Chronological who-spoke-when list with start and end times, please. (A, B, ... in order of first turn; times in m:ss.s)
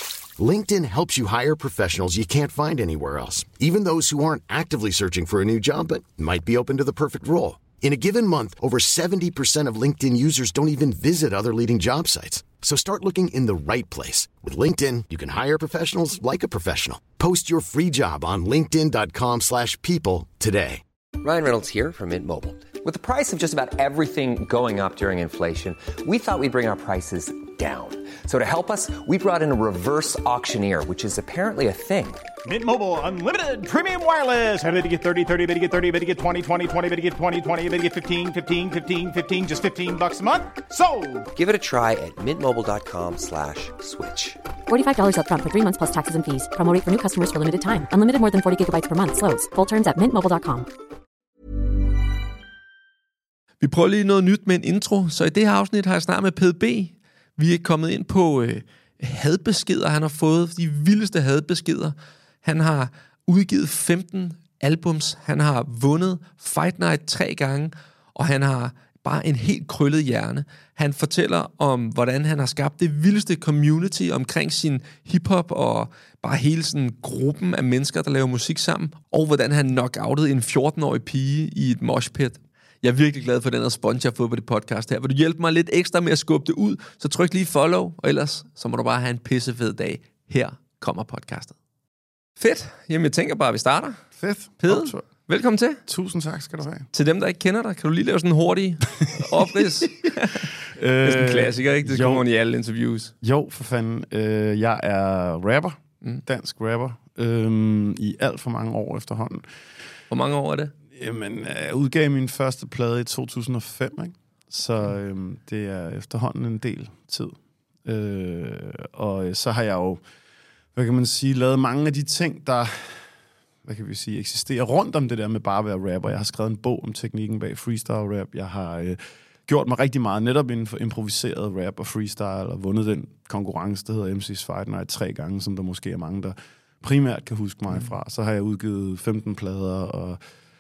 0:00.4-0:20.8 A
0:21.2-0:32.3 B
0:32.4-0:41.3 C
0:41.4-0:44.4 B
0:44.7-0:50.7 D
0:53.6-1:31.5 E
1:32.4-1:34.0 E
1:34.2-1:35.1 F
1:34.6-1:35.8 E
1:35.9-1:36.9 F
1:36.9-1:40.5 E
1:40.8-1:42.2 F
1:41.0-1:43.1 E
1:43.2-1:49.4 F
1:50.1-1:50.7 E
1:51.0-1:57.3 F
1:57.8-2:00.0 F
2:00.7-2:03.1 F
2:03.6-2:20.2 F